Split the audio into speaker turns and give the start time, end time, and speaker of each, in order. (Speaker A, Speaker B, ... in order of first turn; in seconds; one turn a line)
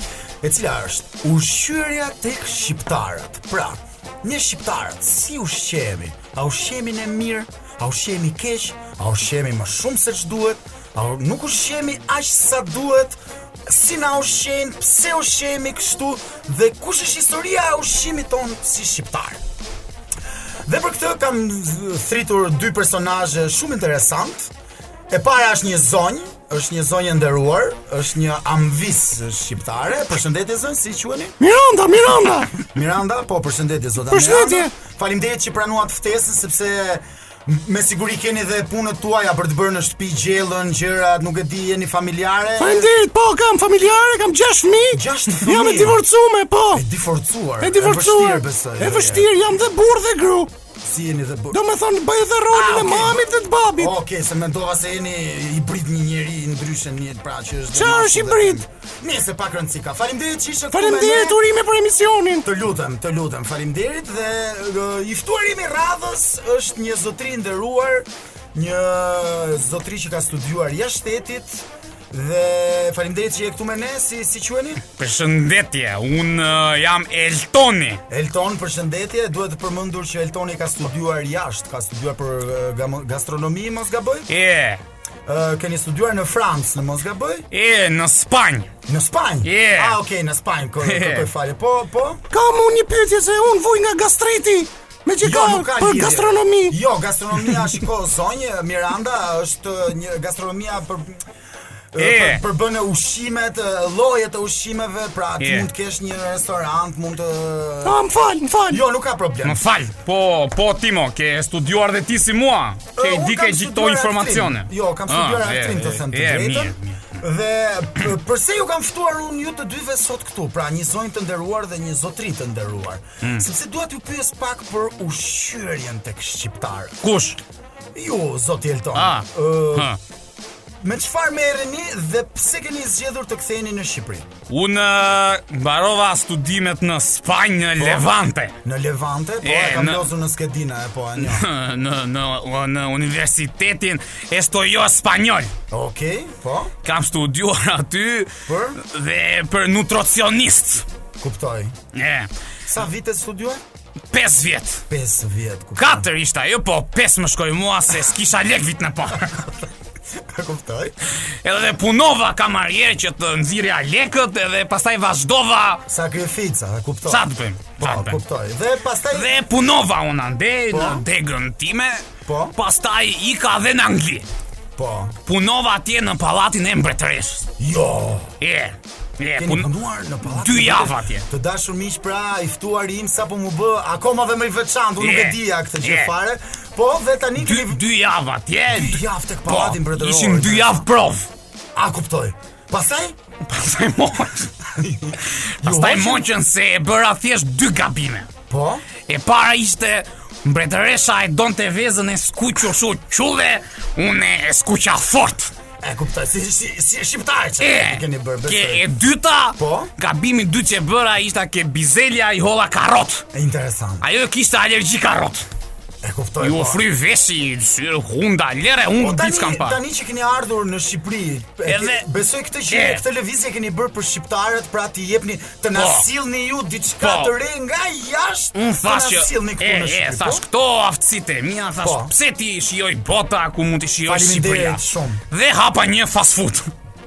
Speaker A: 0.4-19.4
Speaker A: 20.7-24.5
Speaker A: 25.1-31.4
Speaker B: 31.4-32.5
Speaker A: 32.6-42.9
Speaker B: 34.1-34.7
Speaker B: 42.6-46.8
Speaker A: 44.9-46.0
Speaker A: 46.7-49.3
Speaker B: 47.6-50.5
Speaker A: 50.8-51.6
Speaker B: 51.5-53.9
Speaker A: 52.5-53.2
Speaker A: 53.8-61.4
Speaker B: 57.7-58.6
Speaker B: 60.7-62.5
Speaker A: 62.4-74.8
Speaker C: 75.0-78.0
Speaker A: 78.1-84.3
Speaker C: 84.3-84.8
Speaker A: 85.3-87.5
Speaker C: 87.5-88.7
Speaker A: 88.9-92.2
Speaker C: 89.4-90.0
Speaker C: 90.8-91.3
Speaker B: 92.3-96.8
Speaker A: 95.2-101.2
Speaker A: 101.9-108.0
Speaker C: 102.0-102.4
Speaker C: 105.4-105.7
Speaker B: 107.8-108.8
Speaker A: 108.7-109.6
Speaker C: 109.4-117.2
Speaker A: 113.0-127.0
Speaker C: 127.0-127.4
Speaker A: 128.0-129.9
Speaker C: 128.9-130.0
Speaker A: 130.8-134.3
Speaker C: 134.5-138.6
Speaker A: 137.8-138.1
Speaker A: 138.6-141.5
Speaker C: 139.4-140.1
Speaker C: 141.2-145.5
Speaker A: 145.7-146.7
Speaker C: 146.8-150.8
Speaker A: 148.5-148.8
Speaker A: 151.2-151.7
Speaker C: 151.9-152.3
Speaker A: 152.7-153.6
Speaker C: 154.1-154.8
Speaker A: 154.9-156.0
Speaker C: 155.8-159.5
Speaker A: 160.3-160.9
Speaker C: 161.4-165.9
Speaker A: 165.9-167.2
Speaker C: 167.1-168.2
Speaker A: 167.8-169.3
Speaker C: 169.1-174.3
Speaker A: 170.7-171.0
Speaker A: 172.3-172.5
Speaker A: 174.8-175.1
Speaker C: 175.3-177.5
Speaker A: 177.6-178.4
Speaker C: 178.4-179.7
Speaker A: 179.4-187.8
Speaker C: 180.2-181.3
Speaker C: 185.0-186.1
Speaker C: 187.4-191.3
Speaker A: 188.7-190.8
Speaker A: 191.8-193.2
Speaker C: 193.4-194.5
Speaker A: 194.6-196.2
Speaker C: 195.6-198.3
Speaker A: 198.5-198.8
Speaker C: 199.1-205.5
Speaker A: 205.8-208.8
Speaker C: 207.6-213.3
Speaker A: 209.6-209.9
Speaker A: 213.3-214.0
Speaker C: 214.0-215.5
Speaker A: 216.0-216.8
Speaker C: 216.4-219.8
Speaker A: 219.0-230.4
Speaker C: 221.7-222.1
Speaker C: 222.7-223.0
Speaker C: 225.7-226.1
Speaker C: 227.0-227.3
Speaker C: 228.5-236.7
Speaker A: 231.8-232.1
Speaker A: 234.1-235.2